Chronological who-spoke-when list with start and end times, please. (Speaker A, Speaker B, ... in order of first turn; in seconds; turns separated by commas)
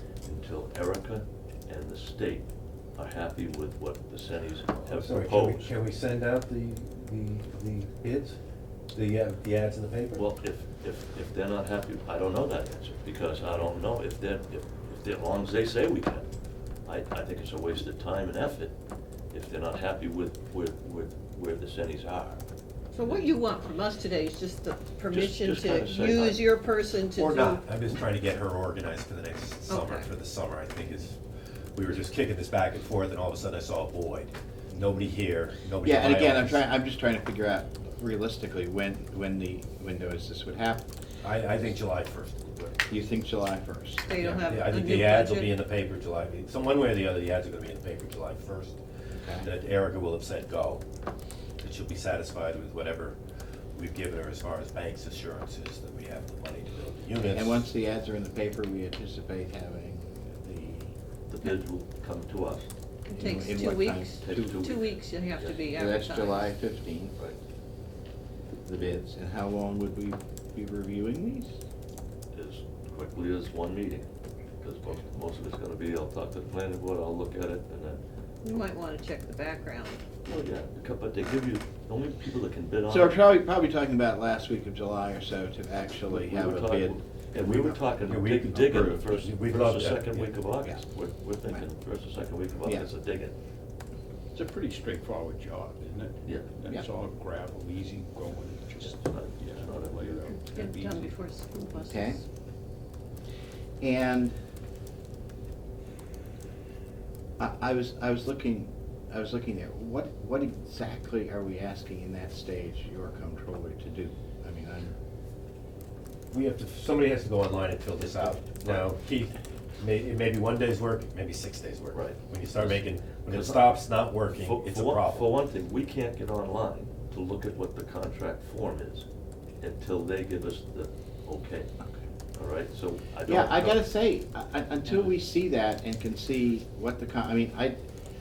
Speaker A: 0.2-5.7, Speaker B: 4.9-8.4, Speaker B: 8.9-10.2, Speaker A: 10.1-16.3, Speaker A: 16.8-18.7, Speaker A: 19.3-22.4, Speaker C: 22.9-27.6, Speaker A: 23.0-23.2, Speaker A: 25.1-26.4, Speaker B: 27.1-31.2, Speaker C: 29.7-30.1, Speaker B: 31.7-36.7, Speaker D: 35.8-40.9, Speaker B: 41.2-42.7, Speaker D: 42.9-44.5, Speaker C: 44.1-45.5, Speaker B: 44.2-48.8, Speaker D: 49.1-49.5, Speaker B: 49.4-50.8, Speaker B: 51.6-53.2, Speaker B: 53.7-57.7, Speaker D: 57.2-60.9, Speaker A: 61.3-62.7, Speaker C: 63.0-66.5, Speaker D: 63.1-64.6, Speaker A: 64.2-65.6, Speaker D: 65.7-67.1, Speaker D: 68.6-71.6, Speaker A: 72.3-74.1, Speaker A: 74.6-78.0, Speaker C: 78.4-80.0, Speaker A: 80.3-83.2, Speaker D: 82.9-87.8, Speaker A: 86.1-93.3, Speaker B: 88.1-90.3, Speaker E: 94.3-101.3, Speaker A: 96.2-96.5, Speaker A: 98.8-100.3, Speaker C: 100.5-102.2, Speaker D: 101.8-102.2, Speaker D: 103.8-104.3, Speaker D: 107.4-114.9, Speaker B: 116.3-125.3, Speaker A: 121.9-129.1, Speaker A: 129.6-131.7, Speaker A: 132.3-133.8, Speaker D: 133.3-137.8